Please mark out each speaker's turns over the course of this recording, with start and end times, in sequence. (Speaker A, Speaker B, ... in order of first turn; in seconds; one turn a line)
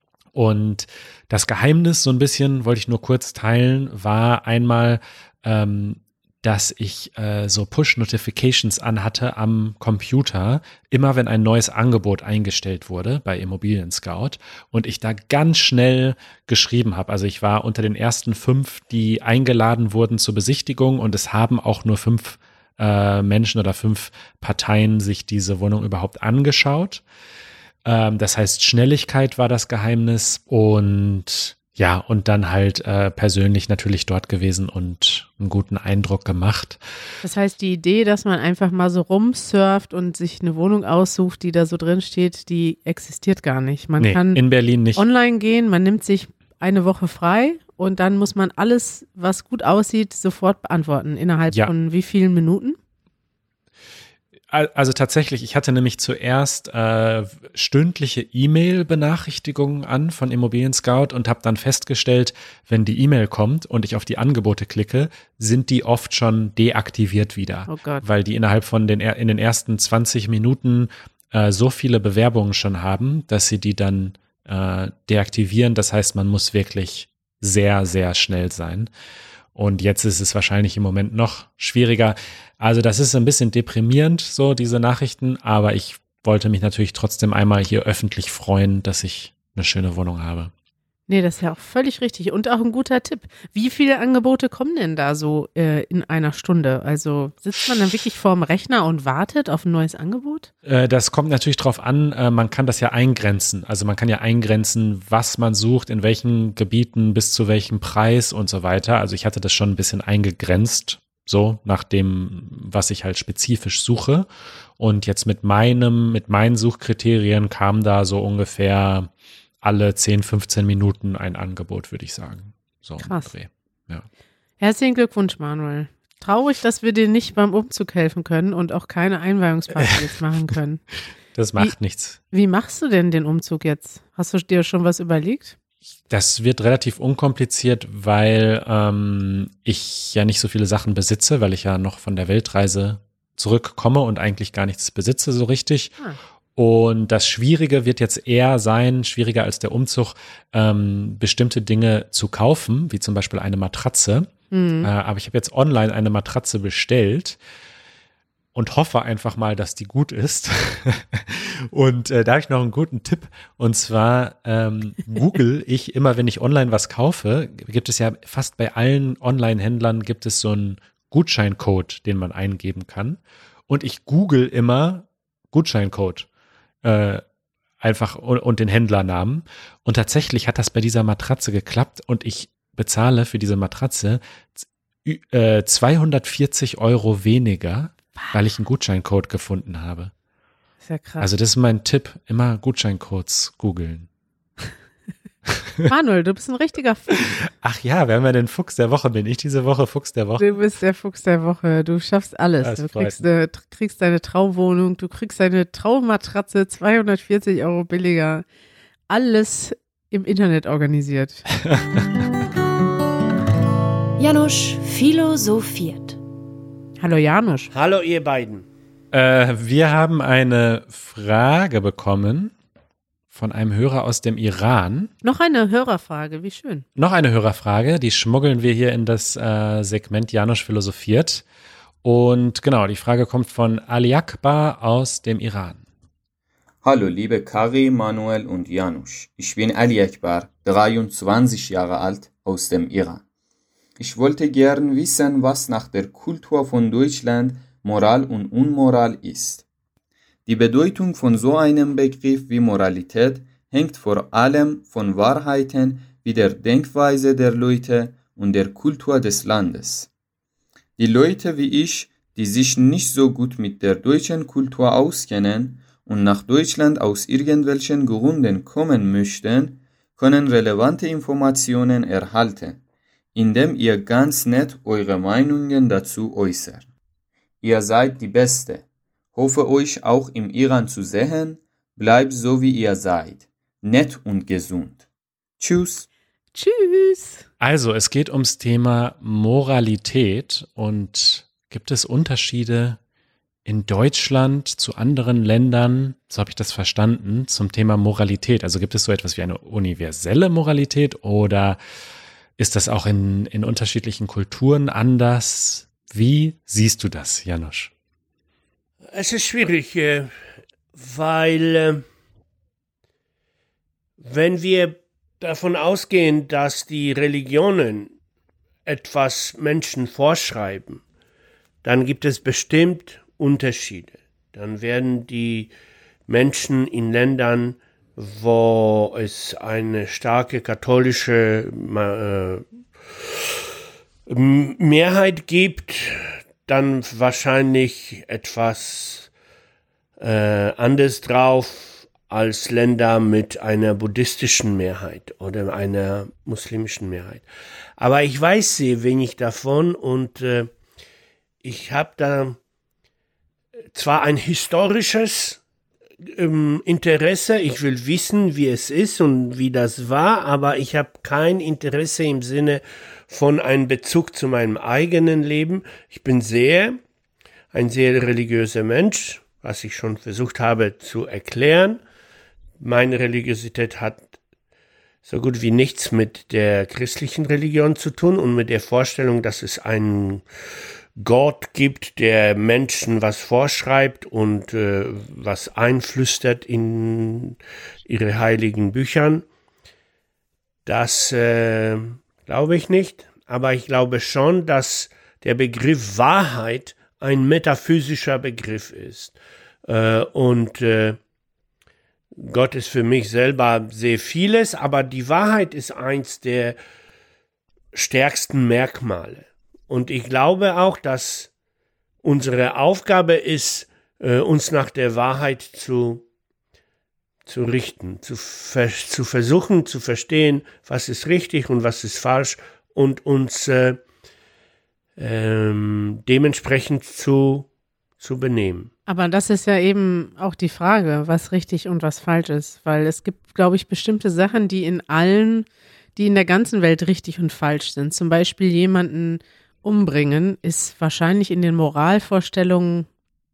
Speaker A: 0.3-27.0
Speaker A: 27.8-36.8
Speaker B: 37.2-44.4
Speaker A: 44.0-45.0
Speaker B: 44.9-52.8
Speaker A: 54.5-78.9
Speaker B: 67.7-68.0
Speaker A: 79.5-90.5
Speaker B: 91.1-100.5
Speaker A: 100.6-114.3
Speaker A: 114.8-119.1
Speaker A: 119.6-124.0
Speaker B: 123.0-123.3
Speaker B: 124.6-130.8
Speaker A: 131.3-132.2
Speaker B: 132.3-135.6
Speaker A: 136.1-146.0
Speaker A: 146.6-157.4
Speaker B: 154.5-154.9
Speaker A: 158.5-176.3
Speaker A: 176.8-177.2
Speaker A: 177.8-190.1
Speaker B: 190.8-191.3
Speaker A: 191.2-194.1
Speaker B: 195.9-197.4
Speaker A: 197.6-200.5
Speaker B: 200.4-208.4
Speaker A: 202.6-203.2
Speaker B: 209.1-211.5
Speaker A: 211.6-212.1
Speaker C: 214.2-216.2
Speaker B: 217.0-217.7
Speaker D: 217.7-218.7
Speaker A: 219.1-222.5
Speaker A: 223.3-225.1
Speaker B: 225.2-226.8
Speaker A: 226.9-231.4
Speaker A: 232.0-235.8
Speaker E: 236.8-243.2
Speaker E: 244.0-249.6
Speaker E: 250.4-260.1
Speaker E: 261.0-272.8
Speaker E: 273.3-276.9
Speaker E: 277.6-285.0
Speaker E: 285.6-286.1
Speaker B: 286.5-287.4
Speaker A: 287.6-293.0
Speaker A: 293.6-301.8
Speaker A: 302.6-307.9
Speaker D: 309.1-310.3
Speaker D: 310.9-312.0
Speaker D: 314.2-318.1
Speaker D: 318.9-321.0
Speaker D: 321.8-325.7
Speaker D: 326.3-332.6
Speaker D: 334.3-339.3
Speaker D: 340.2-347.4
Speaker D: 348.0-350.7
Speaker D: 351.6-352.6
Speaker D: 353.9-355.6
Speaker D: 356.3-367.0
Speaker D: 367.7-372.0
Speaker D: 372.8-374.3
Speaker D: 375.2-380.4
Speaker D: 381.2-389.4
Speaker D: 390.9-401.2
Speaker D: 402.4-406.8
Speaker D: 407.9-411.5
Speaker D: 412.2-416.2
Speaker D: 417.4-424.0
Speaker D: 425.2-427.7
Speaker D: 428.2-428.9
Speaker B: 429.1-443.1